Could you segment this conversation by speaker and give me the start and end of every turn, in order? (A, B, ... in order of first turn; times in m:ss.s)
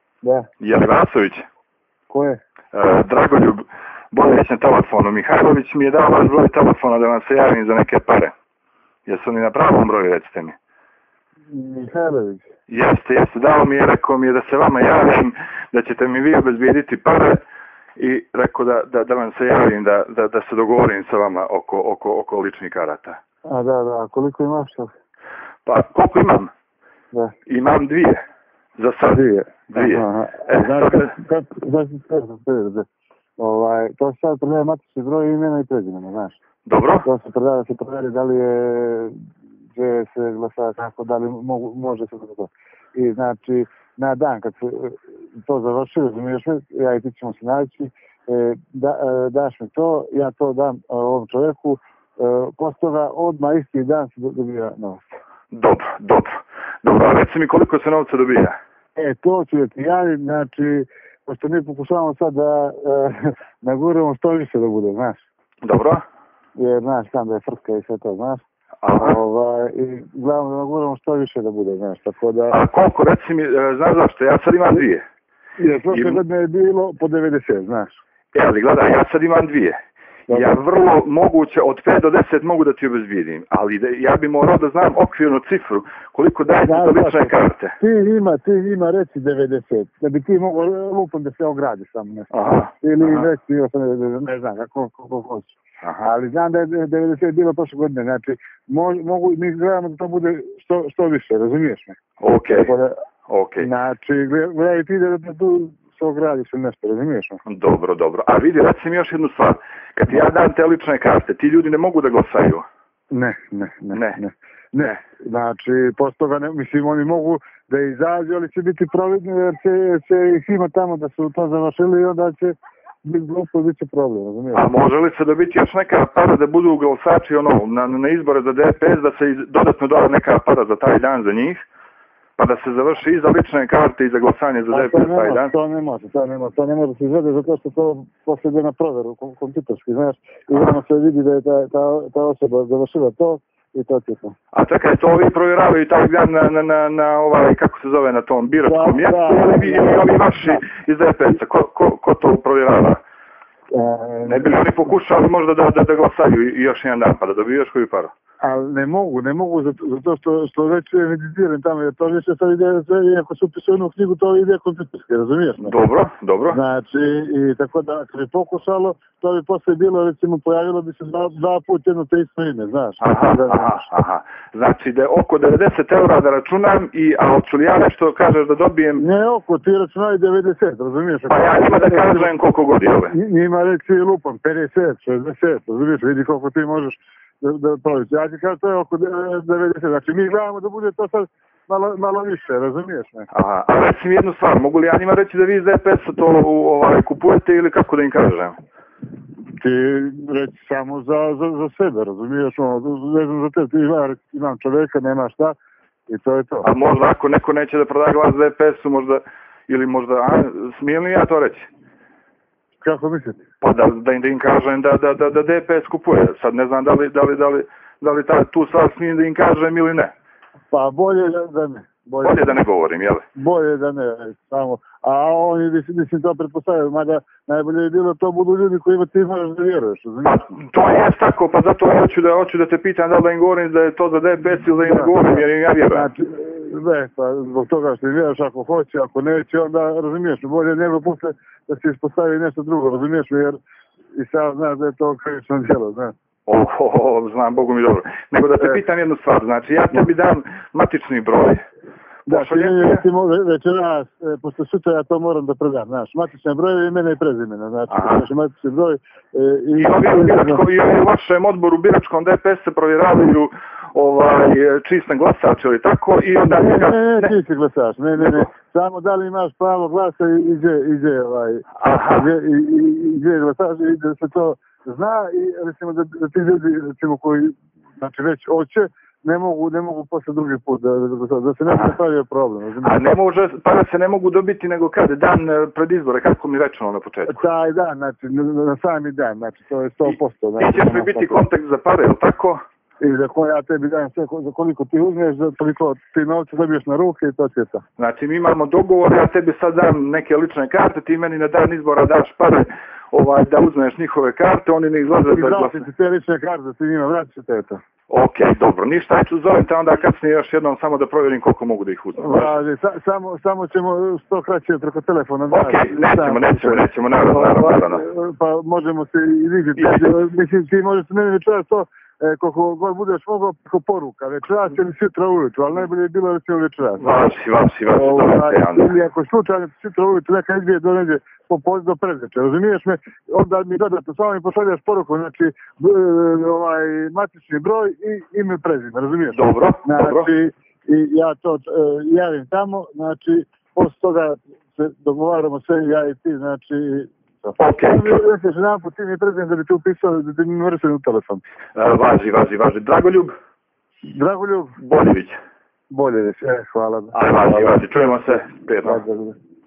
0:00.2-0:00.5 A
0:00.6-0:01.5 B
0:02.1-0:02.4 A
0:02.7-0:08.3 B
0:09.1-0:10.6 B
0:11.5-0:12.5 A
0:12.7-0:17.4 B
0:18.0-0:23.2 B
0:23.5-0:24.9 A
0:25.6-0:26.5 B
0:27.5-0:28.2 B
0:28.8-0:31.1 B
0:29.1-0:32.9 A
0:33.4-0:36.4 A
0:36.7-0:37.1 B
0:37.0-0:39.2 A
0:39.8-0:55.2 A
0:55.5-0:58.6 B
0:59.0-1:05.2 A
1:05.6-1:06.0 B
1:06.6-1:08.4 A
1:08.8-1:09.2 B
1:09.0-1:12.6 A
1:12.5-1:15.0 B
1:15.6-1:18.0 A
1:15.9-1:16.2 B
1:18.3-1:19.8 B
1:20.3-1:20.6 A
1:20.3-1:27.8 B
1:26.6-1:43.0 A
1:32.3-1:33.3 B
1:35.8-1:36.1 B
1:42.2-1:42.7 B
1:43.3-1:43.7 B
1:43.6-1:47.4 A
1:47.5-1:52.6 B
1:53.1-2:04.7 A
1:53.9-1:54.2 B
2:04.5-2:11.6 B
2:12.4-2:15.5 B
2:14.7-2:24.4 A
2:24.5-2:33.0 B
2:28.6-2:30.6 A
2:33.7-2:34.6 A
2:34.2-2:38.1 B
2:38.4-2:45.8 A
2:45.6-2:46.6 B
2:46.5-2:53.8 A
2:53.0-2:59.0 B
2:59.0-3:02.3 A
3:01.3-3:03.1 B
3:03.1-3:13.3 A
3:13.3-3:18.6 B
3:19.6-3:25.6 A
3:26.1-3:26.7 A
3:26.6-3:31.7 B
3:32.8-3:33.4 A
3:33.6-3:40.1 B
3:40.7-3:42.6 A
3:42.2-3:43.2 B
3:43.4-3:50.6 A
3:50.3-3:56.1 B
3:54.8-3:55.2 A
3:55.9-4:03.6 A
4:04.1-4:06.1 A
4:06.5-4:11.6 B
4:12.3-4:13.1 B
4:12.3-4:20.6 A
4:17.9-4:18.3 B
4:19.8-4:27.3 B
4:26.4-4:43.1 A
4:28.2-4:28.5 B
4:31.8-4:32.3 B
4:42.8-4:47.4 B
4:47.3-4:51.4 A
4:50.1-4:52.6 B
4:53.0-4:57.8 A
4:58.0-5:05.8 B
5:05.3-5:07.8 A
5:08.1-5:12.6 B
5:12.2-5:27.1 A
5:15.5-5:18.0 B
5:19.8-5:20.1 B
5:27.0-5:29.0 B
5:27.9-5:51.4 A
5:39.3-5:40.3 B
5:47.6-5:48.2 B
5:51.8-5:53.4 B
5:54.0-5:54.8 A
5:54.8-5:55.4 B
5:55.9-5:59.4 A
5:57.1-5:59.0 B